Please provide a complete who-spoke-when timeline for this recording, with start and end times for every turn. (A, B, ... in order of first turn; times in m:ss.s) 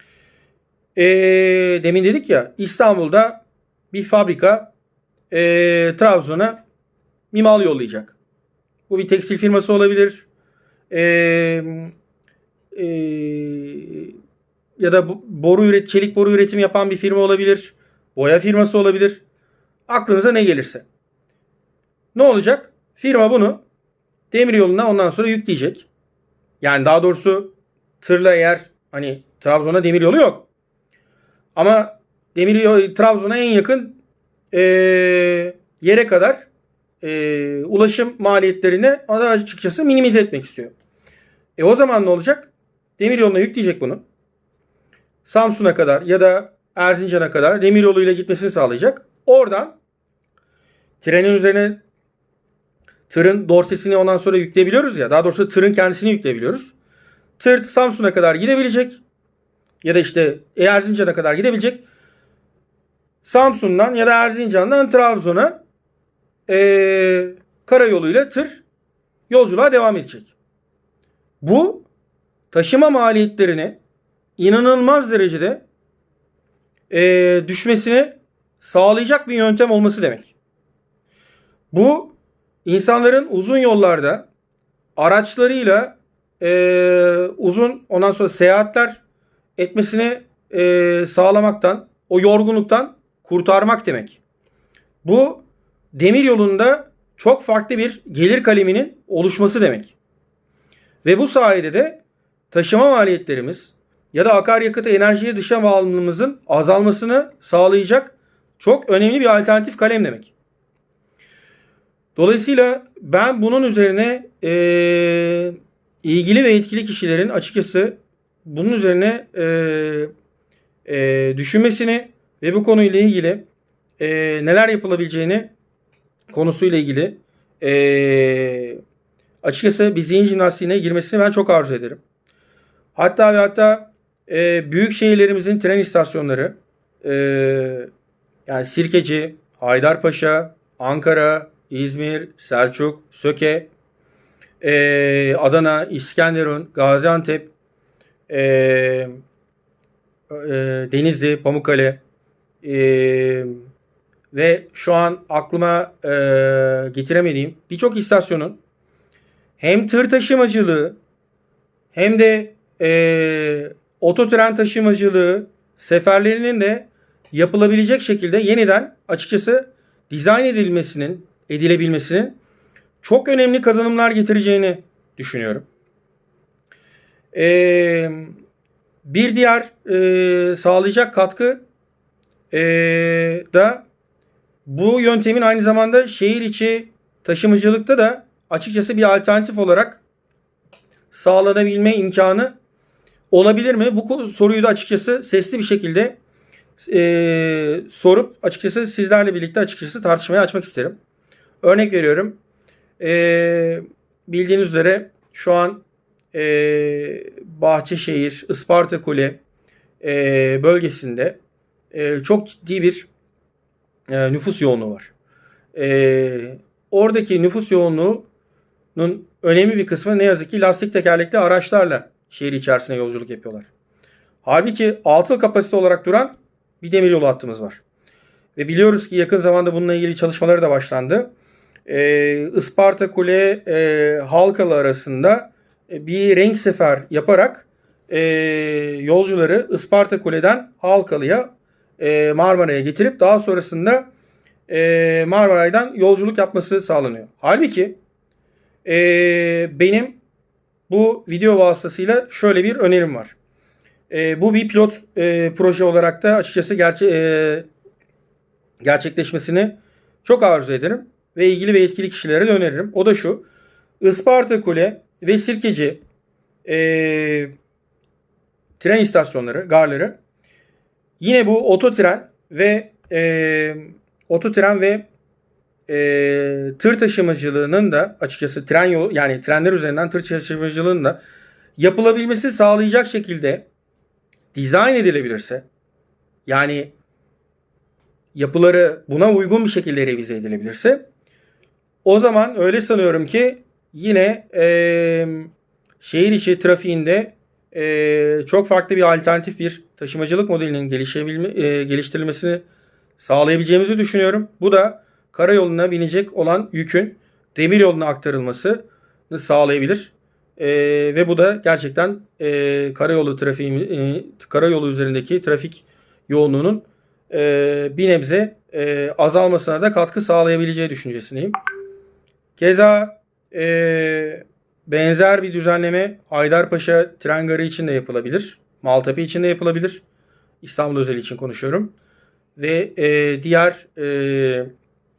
0:01.0-0:04.7 A
0:05.3-0:06.6 A
0:07.3-0:08.2 A
0:08.9-0:10.3 A
0:10.9-0:11.9 A
0:12.7-0:14.1 A
0:14.8-0:19.2 A
0:19.9-0:20.9 A
0:22.2-0:23.6 A
0:24.3-0:25.9 A
0:26.6-0:30.5 A
0:31.6-0:34.0 A
0:34.5-0:36.5 A
0:37.0-0:40.7 A
0:41.6-0:44.0 A
0:45.3-0:49.8 A
0:51.0-0:51.8 A
0:53.1-0:56.7 A
0:57.4-0:59.0 A
0:59.8-1:01.8 A
1:03.2-1:05.6 A
1:06.5-1:08.6 A
1:09.3-1:10.3 A
1:11.4-1:11.9 A
1:12.5-1:13.8 A
1:14.4-1:15.6 A
1:16.9-1:20.3 A
1:21.7-1:24.3 A
1:25.0-1:29.0 A
1:29.6-1:34.2 A
1:35.0-1:40.0 A
1:41.0-1:42.0 A
1:42.5-1:50.3 A
1:52.2-2:00.1 A
2:00.9-2:03.4 A
2:04.0-2:05.5 A
2:06.3-2:08.8 A
2:09.4-2:12.0 A
2:13.0-2:17.9 A
2:18.5-2:23.7 A
2:24.6-2:27.5 A
2:28.3-2:29.2 A
2:30.3-2:32.0 A
2:32.6-2:33.6 A
2:34.3-2:38.6 A
2:39.6-2:41.0 A
2:41.9-2:52.4 A
2:53.0-2:55.7 A
2:57.3-2:58.4 A
2:59.0-3:01.6 A
3:02.5-3:03.8 A
3:04.7-3:10.0 A
3:11.1-3:12.6 A
3:13.3-3:16.2 A
3:16.8-3:21.0 A
3:21.6-3:22.4 A
3:23.0-3:29.4 A
3:30.0-3:31.4 A
3:31.9-3:33.1 A
3:34.1-3:35.1 A
3:35.8-3:38.3 A
3:39.0-3:43.7 A
3:44.4-3:47.8 A
3:48.6-3:51.3 A
3:51.9-4:04.1 A
4:04.7-4:08.0 A
4:08.8-4:10.2 A
4:10.9-4:13.4 A
4:14.1-4:17.7 A
4:18.8-4:23.4 A
4:24.0-4:26.0 A
4:26.6-4:27.5 A
4:28.8-4:30.2 A
4:31.2-4:35.1 A
4:35.9-4:41.2 A
4:41.8-4:43.7 A
4:44.5-4:45.7 A
4:46.5-4:46.9 A
4:48.4-4:51.0 A
4:52.0-5:02.6 A
5:03.2-5:21.6 A
5:22.6-5:30.0 A
5:30.6-5:31.9 A
5:32.6-5:34.7 A